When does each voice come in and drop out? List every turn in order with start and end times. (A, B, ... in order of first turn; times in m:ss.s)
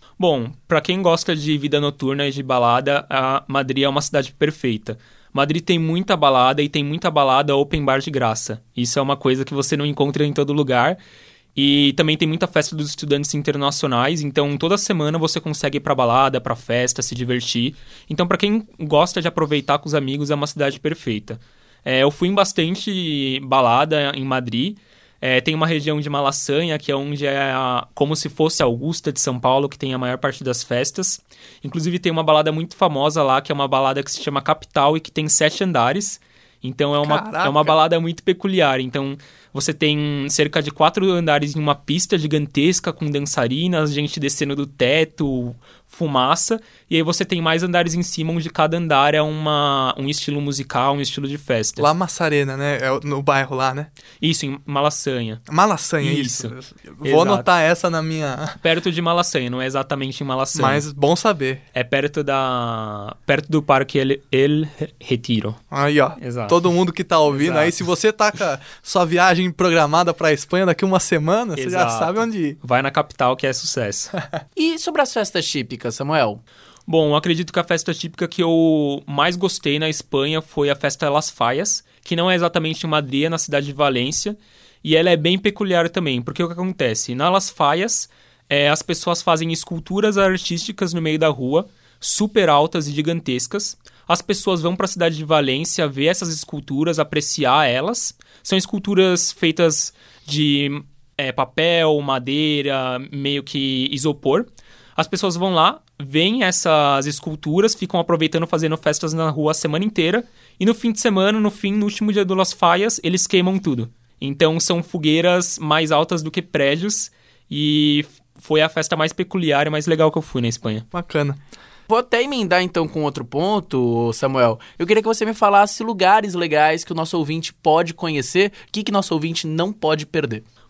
0:00.2-0:11.0 A
0:11.6-0:51.9 A
0:37.0-0:37.8 B
0:51.8-0:53.9 B
0:54.2-0:55.4 A
0:55.5-0:58.6 B
0:56.0-0:57.4 A
0:58.6-1:00.8 A
1:00.5-1:01.6 B
1:01.7-1:05.6 A
1:05.7-1:12.6 B
1:06.2-1:06.6 A
1:07.3-1:07.8 A
1:11.6-1:14.1 A
1:14.6-1:16.4 C
1:16.9-2:00.8 A
2:00.9-2:01.4 B
2:01.9-2:10.4 C